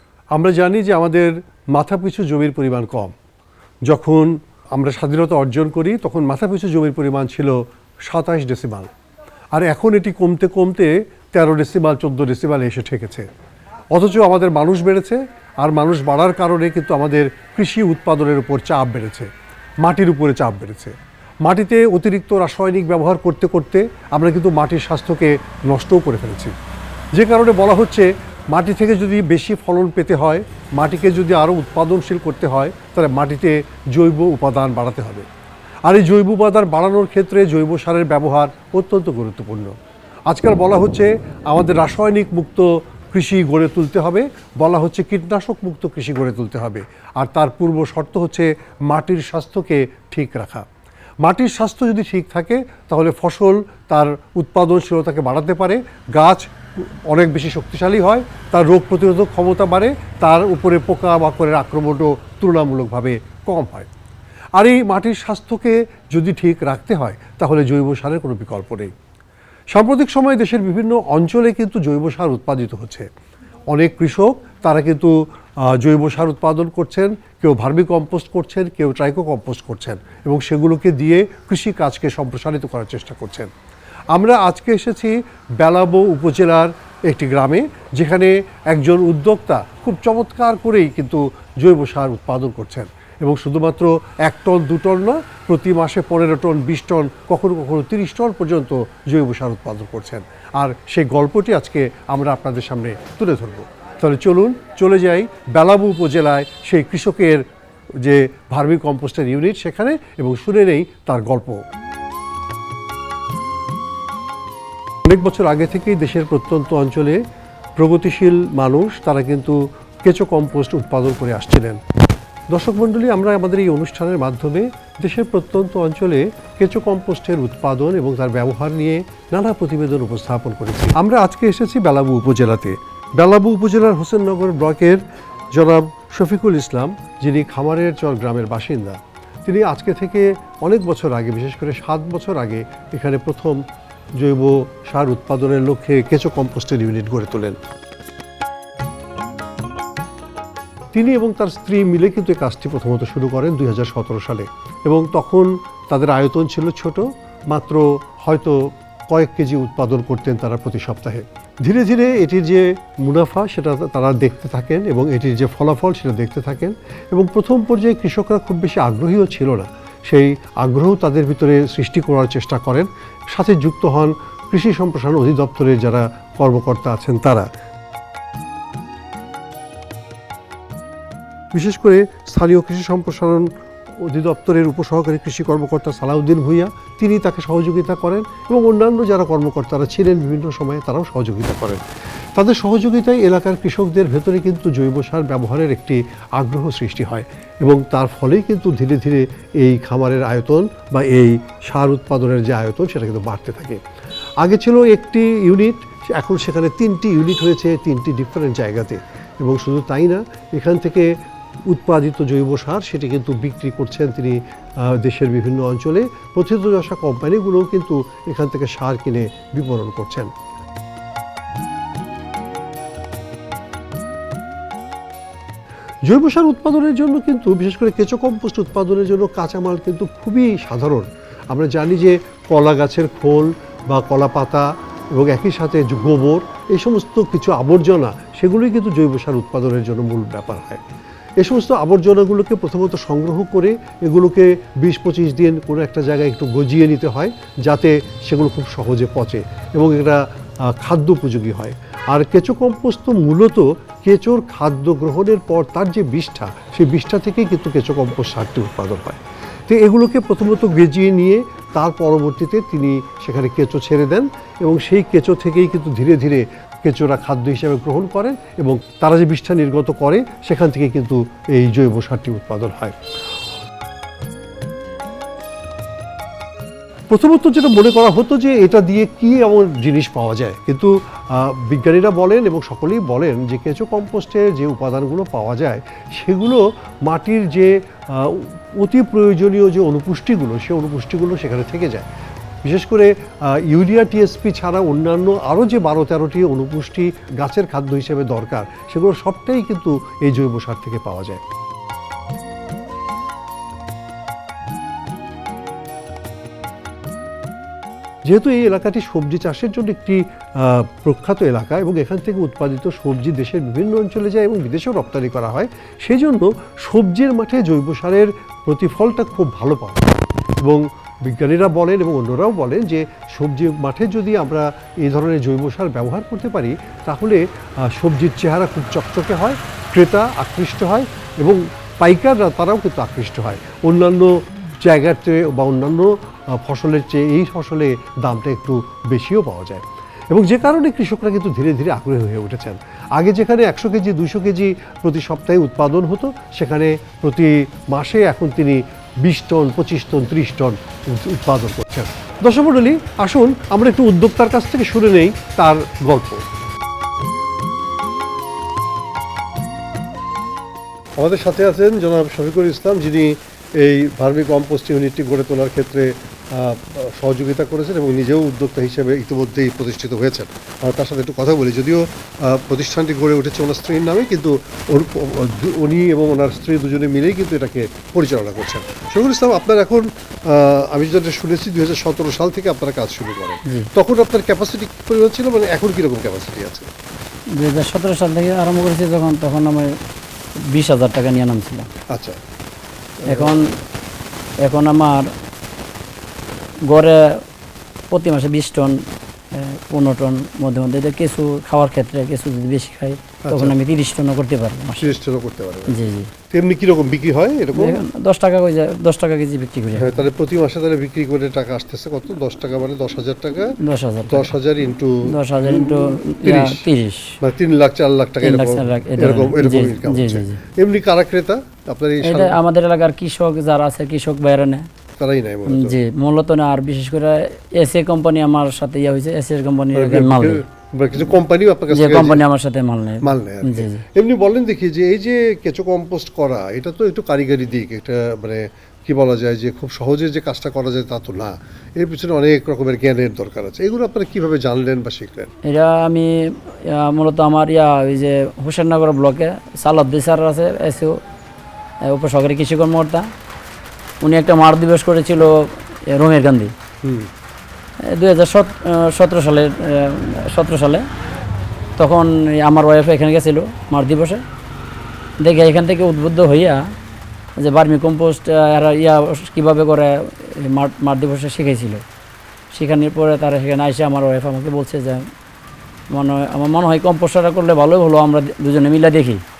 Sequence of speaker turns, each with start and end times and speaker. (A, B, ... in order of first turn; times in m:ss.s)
0:00.3-0:03.1 A
0:03.9-0:07.5 A
0:08.0-0:08.9 A
0:09.5-0:13.2 A
0:13.9-0:19.3 A
0:19.8-0:26.5 A
0:27.1-0:35.2 A
0:35.8-0:39.7 A
0:40.3-0:50.6 A
0:51.2-1:03.9 A
1:04.6-1:08.9 A
1:09.7-1:13.0 A
1:13.7-1:15.1 A
1:15.6-1:23.5 A
1:24.1-1:47.4 A
1:48.0-1:51.6 A
1:55.0-1:57.2 A
1:57.8-2:01.8 A
2:02.5-2:15.0 A
2:15.5-2:23.6 A
2:24.2-2:27.6 A
2:30.9-2:38.6 A
2:39.1-2:57.5 A
3:01.5-3:03.5 A
3:04.0-3:11.8 A
3:12.4-3:23.8 A
3:24.4-3:31.1 A
3:31.7-3:40.3 A
3:46.1-4:00.8 A
4:01.4-4:10.2 A
4:10.7-4:33.0 A
4:37.1-4:52.1 A
4:52.6-5:01.4 A
5:08.2-5:20.1 A
5:20.6-5:56.4 A
6:01.2-6:26.9 A
6:27.6-6:29.9 B
6:30.7-6:31.9 B
6:32.1-6:32.4 A
6:33.2-6:33.6 A
6:33.3-6:33.7 B
6:34.6-6:35.3 B
6:36.9-6:37.4 B
6:38.1-6:45.1 B
6:43.4-6:43.8 A
6:45.0-6:48.0 A
6:45.9-6:46.3 B
6:47.8-6:50.2 B
6:50.0-6:53.8 A
6:53.8-6:54.5 B
6:54.3-6:56.8 A
6:55.3-6:57.4 B
6:57.4-7:02.6 A
6:58.4-7:00.6 B
7:02.2-7:04.9 B
7:05.2-7:06.0 A
7:05.7-7:10.6 B
7:09.9-7:12.4 A
7:11.9-7:14.0 B
7:13.2-7:25.5 A
7:25.6-7:31.2 B
7:32.0-7:33.2 B
7:34.2-7:36.7 B
7:37.0-7:37.3 A
7:38.1-7:41.0 B
7:42.0-7:44.4 B
7:45.4-7:46.8 B
7:47.6-7:52.0 B
7:52.7-7:55.2 B
7:56.1-7:59.4 B